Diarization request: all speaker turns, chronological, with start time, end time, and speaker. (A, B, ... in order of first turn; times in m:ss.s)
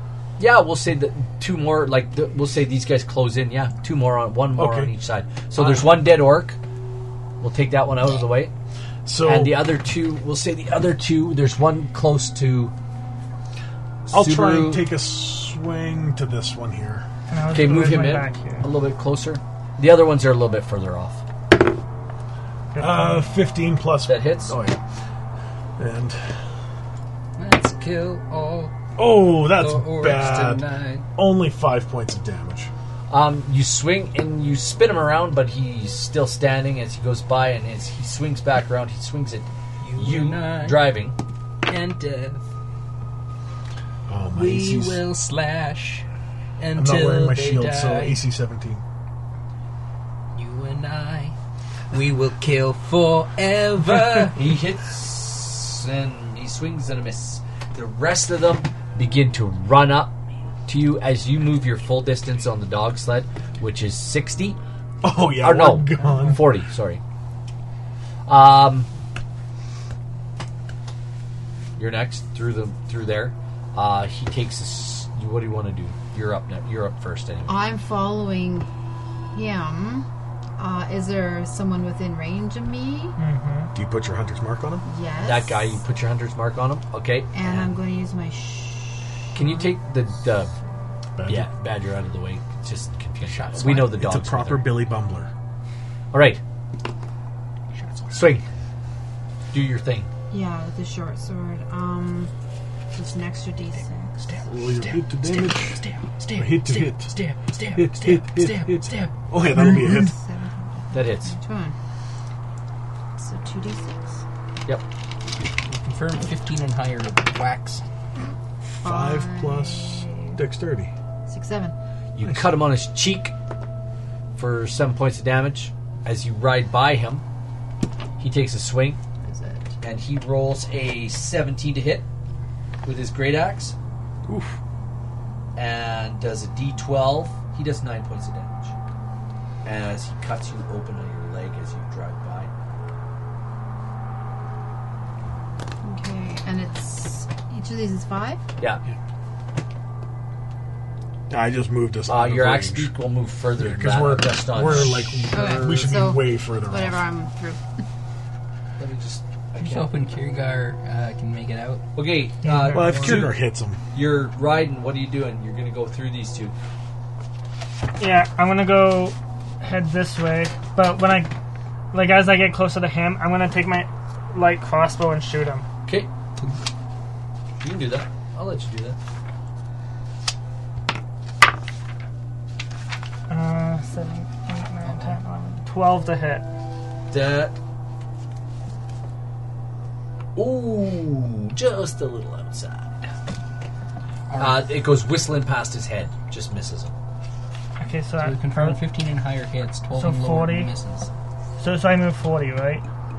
0:00.4-0:06.6 A
0:04.6-0:04.9 B
0:07.4-0:08.5 A
0:09.1-0:09.6 B
0:09.2-0:12.7 A
0:14.1-0:14.9 A
0:14.1-0:17.1 B
0:17.3-0:18.7 C
0:17.5-0:21.2 A
0:22.7-0:23.3 C
0:22.8-0:24.8 B
0:24.1-0:24.6 A
0:25.8-0:26.5 B
0:27.4-0:28.8 D
0:29.0-0:32.7 B
0:29.4-0:31.1 D
0:33.1-0:41.2 A
0:39.8-0:40.9 D
0:41.6-0:42.5 D
0:44.1-0:45.0 B
0:44.3-0:46.1 D
0:46.6-0:48.2 D
0:46.8-0:48.8 B
0:50.3-0:51.4 D
0:51.9-0:54.4 D
0:54.3-1:04.6 A
1:05.0-1:06.4 B
1:05.4-1:07.0 A
1:08.3-1:08.9 A
1:11.8-1:17.6 A
1:17.5-1:18.7 E
1:19.3-1:20.1 E
1:20.6-1:23.2 E
1:23.2-1:23.7 C
1:23.8-1:24.8 B
1:24.8-1:25.8 E
1:25.2-1:27.8 A
1:27.3-1:29.7 E
1:29.3-1:30.5 A
1:31.2-1:31.5 B
1:31.3-1:34.8 A
1:33.2-1:34.1 D
1:33.8-1:35.3 B
1:36.1-1:36.4 A
1:37.7-1:38.4 D
1:38.1-1:38.4 A
1:39.5-1:40.1 A
1:40.3-1:42.3 E
1:42.9-1:44.5 E
1:43.8-1:49.1 D
1:44.4-1:45.8 B
1:46.4-1:47.2 B
1:47.8-1:50.2 B
1:49.6-1:51.8 E
1:50.9-1:51.4 A
1:53.2-1:54.2 E
1:55.6-1:57.8 D
1:58.6-2:00.9 B
1:58.8-2:00.4 E
2:01.3-2:01.8 E
2:02.2-2:03.3 A
2:02.2-2:02.5 B
2:04.4-2:07.2 A
2:08.2-2:09.0 A
2:09.2-2:09.7 E
2:09.8-2:12.1 A
2:12.8-2:13.8 A
2:14.3-2:14.6 B
2:15.6-2:18.8 A
2:19.6-2:22.5 A
2:25.8-2:28.4 E
2:31.3-2:32.9 B
2:32.1-2:36.0 A
2:33.6-2:37.0 B
2:35.3-2:37.6 E
2:38.8-2:39.9 A
2:39.6-2:41.8 D
2:42.0-2:43.4 A
2:42.4-2:43.3 C
2:42.7-2:43.8 B
2:43.9-2:46.5 A
2:48.0-2:51.3 C
2:51.9-2:55.6 C
2:57.6-2:59.0 A
3:03.3-3:06.4 C
3:04.8-3:05.2 D
3:07.1-3:07.6 A
3:10.4-3:13.0 A
3:14.3-3:14.7 D
3:14.4-3:17.0 A
3:17.8-3:18.8 C
3:18.2-3:21.1 D
3:20.0-3:20.7 C
3:21.6-3:22.8 C